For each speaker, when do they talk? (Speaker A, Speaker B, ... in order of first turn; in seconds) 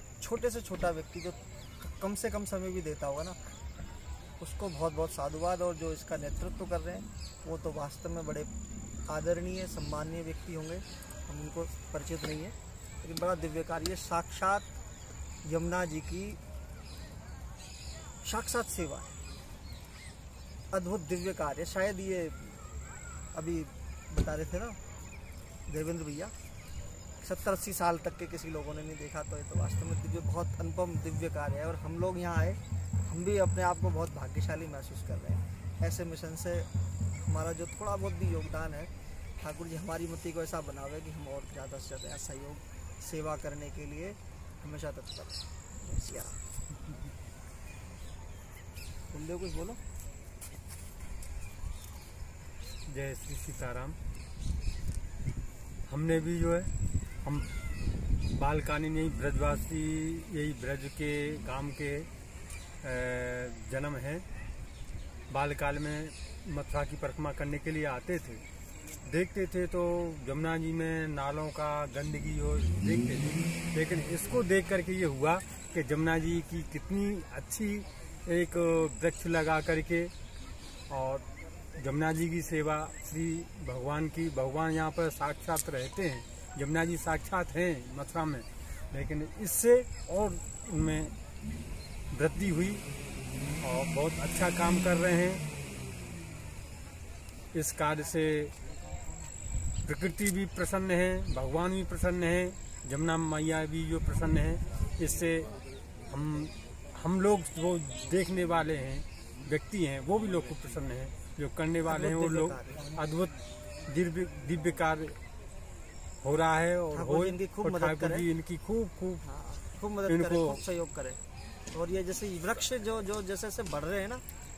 Speaker A: 0.2-3.4, 4.4-8.5, 9.1-14.7, 15.4-16.4, 18.2-19.2, 20.7-22.6, 23.3-24.8, 25.7-26.3, 27.2-46.4, 49.1-49.8, 111.9-113.0, 116.9-118.3, 119.2-121.2, 121.7-124.2
Speaker B: 52.9-54.0, 55.9-57.5, 58.2-62.1, 62.8-64.2, 65.3-68.4, 69.0-80.1, 80.9-91.2, 92.1-92.8, 93.6-95.5, 97.5-98.5, 99.8-105.5, 106.1-115.2, 116.2-119.3, 120.1-120.6